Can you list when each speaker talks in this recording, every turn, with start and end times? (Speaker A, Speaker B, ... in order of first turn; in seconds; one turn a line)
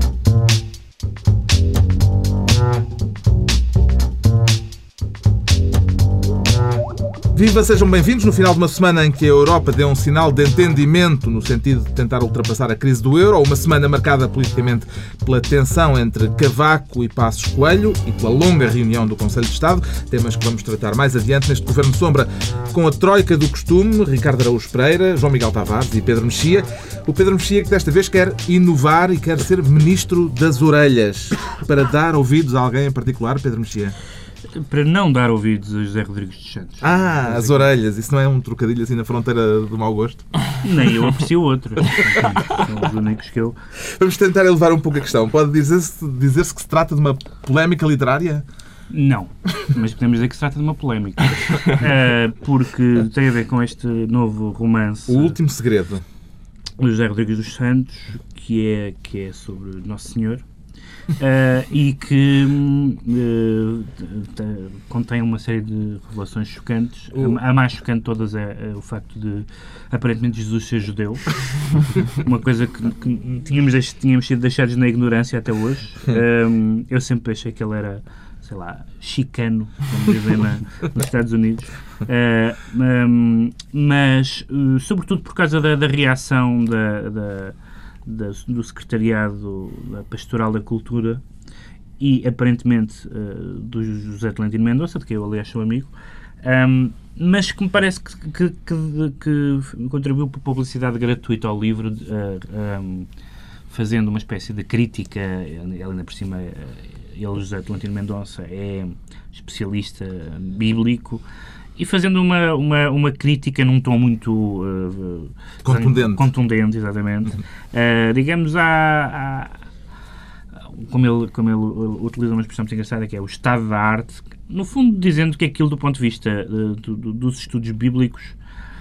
Speaker A: 7.3-33.9
Speaker B: 34.5-37.6
Speaker A: 36.8-40.4
Speaker B: 40.6-43.5
Speaker A: 44.0-48.4
Speaker B: 48.9-55.4
Speaker A: 55.1-56.0
Speaker B: 56.8-60.4
Speaker B: 61.2-91.2
Speaker B: 92.0-95.9
Speaker B: 96.4-103.1
Speaker B: 103.7-111.2
Speaker B: 111.8-119.6
Speaker A: 115.6-116.3
Speaker B: 120.8-128.3